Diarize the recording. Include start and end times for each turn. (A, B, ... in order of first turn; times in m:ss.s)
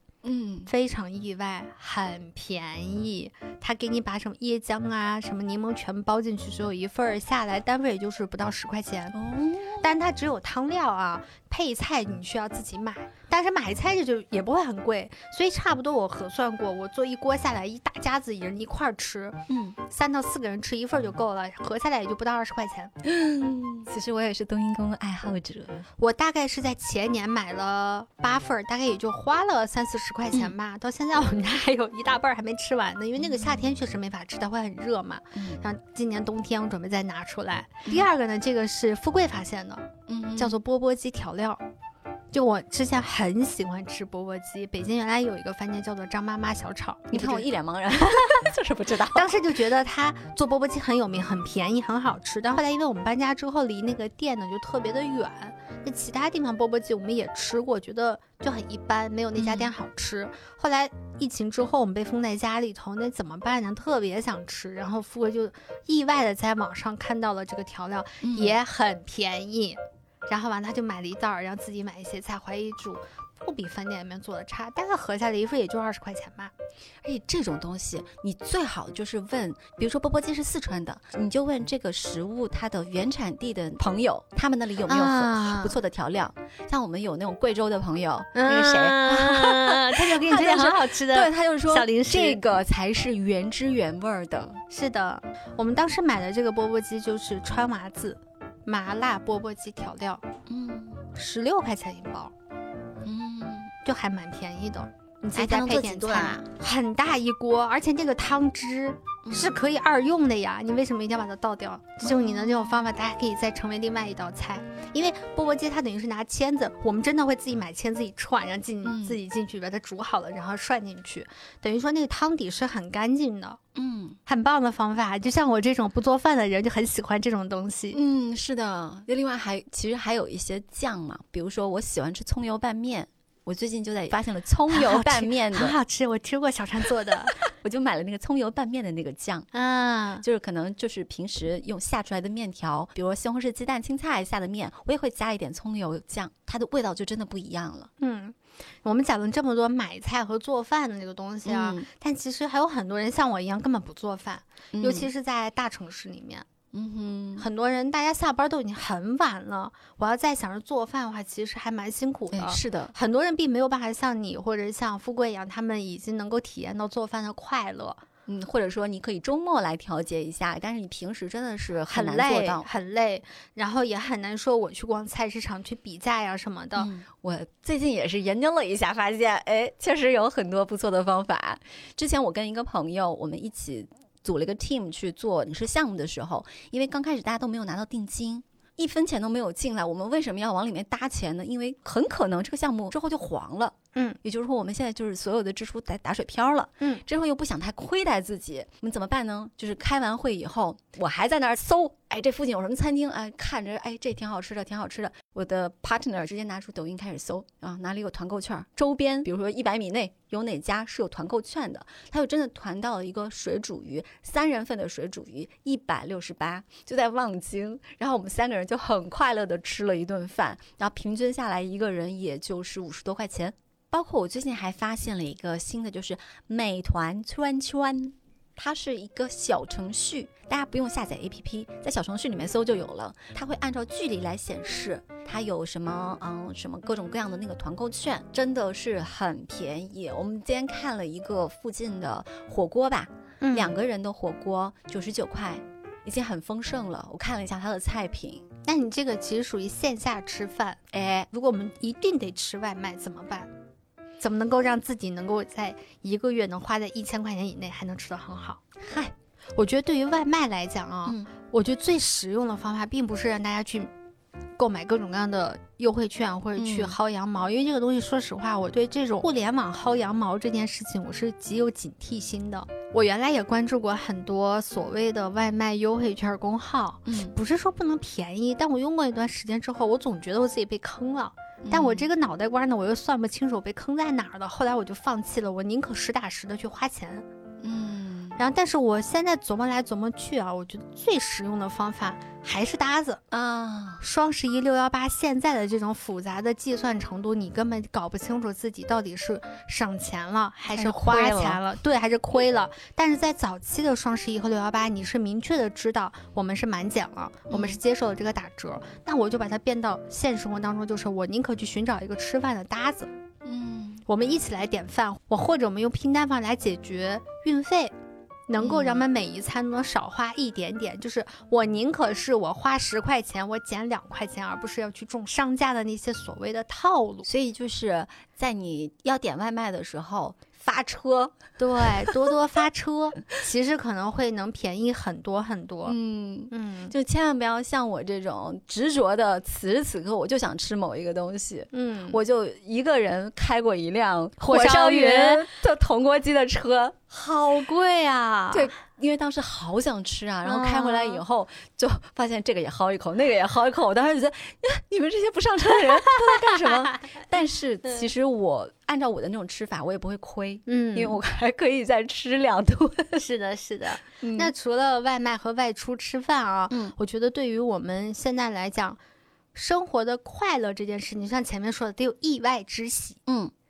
0:00.2-0:00.7 A
0:00.7-0:09.1 B
0:09.1-0:09.9 A
0:09.8-0:22.9 B
0:19.5-0:19.8 A
0:23.0-0:25.9 A
0:26.0-0:41.6 B
0:33.2-0:33.6 A
0:35.4-0:35.6 A
0:40.1-0:40.6 A
0:42.3-0:47.4 B
0:47.1-0:49.4 A
0:48.0-0:48.4 B
0:49.1-1:16.5 B
0:59.4-0:59.7 A
1:08.2-1:08.6 A
1:17.0-1:34.6 A
1:24.9-1:25.8 B
1:28.4-1:32.4 B
1:34.7-1:40.2 B
1:40.5-1:41.0 A
1:41.1-1:42.3 B
1:43.0-1:43.7 A
1:43.8-2:03.6 B
1:45.4-1:46.5 A
1:49.2-1:49.6 A
1:52.0-1:52.9 A
1:58.8-1:59.2 A
2:03.8-2:04.2 A
2:04.3-2:08.0 B
2:07.9-2:15.8 A
2:14.7-2:17.4 B
2:17.1-2:19.5 A
2:19.5-2:20.2 B
2:20.2-2:27.9 A
2:28.0-2:36.4 B
2:31.4-2:31.9 A
2:34.7-2:35.1 A
2:36.7-2:37.4 A
2:37.4-2:48.0 B
2:42.3-2:42.9 A
2:48.3-2:52.7 A
2:51.9-2:56.9 B
2:56.8-4:08.4 A
4:03.4-4:03.8 B
4:08.6-4:13.5 B
4:10.9-4:11.3 A
4:14.2-4:18.6 B
4:18.8-4:19.1 A
4:19.6-4:23.9 B
4:24.6-4:47.2 B
4:26.6-4:27.0 A
4:37.1-4:37.4 A
4:41.6-4:42.1 A
4:47.6-4:48.4 A
4:48.4-4:53.2 B
4:53.3-4:54.0 A
4:54.0-5:13.1 B
5:00.7-5:01.6 A
5:07.5-5:07.8 A
5:13.4-5:14.0 A
5:14.1-5:17.9 B
5:18.5-5:27.3 B
5:18.6-5:19.1 A
5:27.3-5:32.3 A
5:31.6-5:36.0 B
5:35.8-5:47.1 A
5:36.5-5:36.9 B
5:41.7-5:42.2 B
5:44.4-5:45.4 B
5:47.1-5:48.7 B
5:48.5-6:03.2 A
5:50.4-5:51.2 B
5:56.3-5:56.6 B
6:00.7-6:01.2 B
6:03.1-6:09.0 B
6:04.2-6:04.5 A
6:06.7-6:07.0 A
6:09.5-6:13.2 B
6:13.3-6:13.5 A